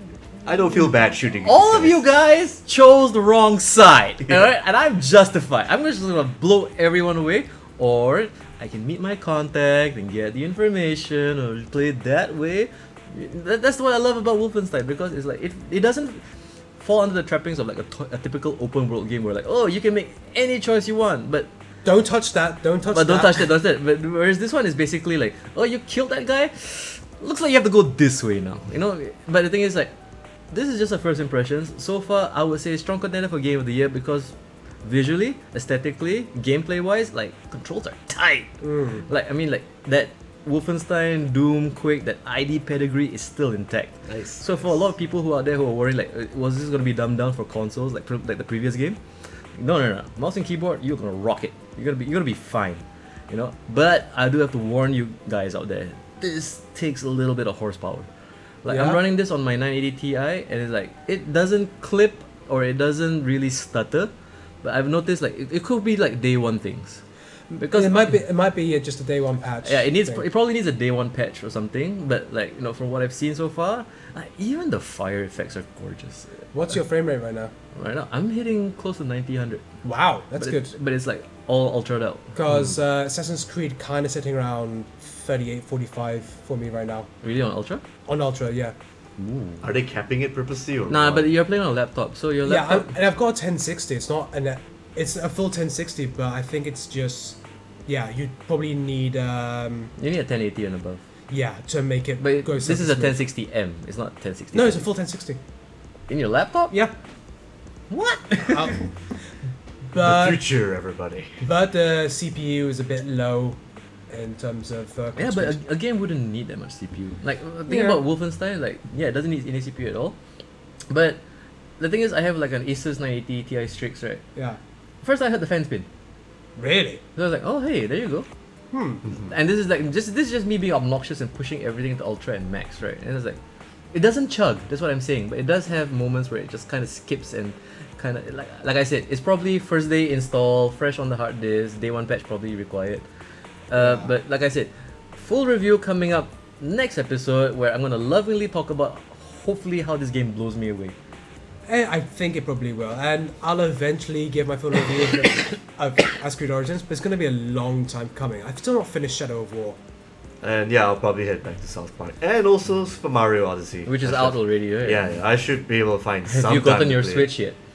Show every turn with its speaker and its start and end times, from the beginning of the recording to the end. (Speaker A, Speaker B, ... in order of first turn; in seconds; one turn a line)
Speaker A: 0.5-2.0
Speaker B: 1.4-16.2
Speaker B: 16.8-21.5
Speaker C: 21.8-23.5
Speaker B: 22.9-29.9
Speaker B: 30.5-34.3
Speaker B: 34.8-38.5
Speaker C: 38.6-39.0
Speaker B: 39.1-49.0
Speaker A: 44.1-44.4
Speaker B: 49.5-58.1
Speaker B: 58.6-64.1
Speaker C: 58.7-59.0
Speaker B: 64.6-67.0
Speaker B: 67.5-68.2
Speaker C: 67.6-70.2
Speaker B: 69.6-76.4
Speaker C: 76.5-77.5
Speaker B: 77.7-79.7
Speaker C: 79.8-80.7
Speaker B: 80.3-82.3
Speaker C: 82.3-87.1
Speaker B: 87.2-87.8
Speaker C: 88.1-88.7
Speaker B: 89.2-89.6
Speaker A: 89.6-91.3
Speaker B: 90.9-93.0
Speaker C: 92.4-99.9
Speaker B: 100.0-101.0
Speaker C: 101.3-103.2
Speaker B: 102.2-104.9
Speaker C: 104.5-105.4
Speaker B: 106.1-106.7
Speaker B: 107.9-108.8
Speaker C: 108.4-108.8
Speaker C: 109.9-110.4
Speaker A: 109.9-111.5
Speaker C: 111.4-115.6
Speaker B: 115.2-120.2
Speaker C: 117.7-118.0
Speaker B: 120.9-121.2
Speaker B: 121.8-124.2
Speaker C: 124.3-124.6
Speaker B: 125.0-125.9
Speaker C: 126.6-127.0
Speaker B: 127.2-128.2
Speaker C: 128.7-129.0
Speaker B: 129.1-133.4
Speaker B: 133.9-143.0
Speaker B: 143.7-150.9
Speaker C: 143.8-144.1
Speaker C: 151.7-159.8
Speaker A: 160.4-167.3
Speaker B: 163.8-165.1
Speaker B: 166.2-167.6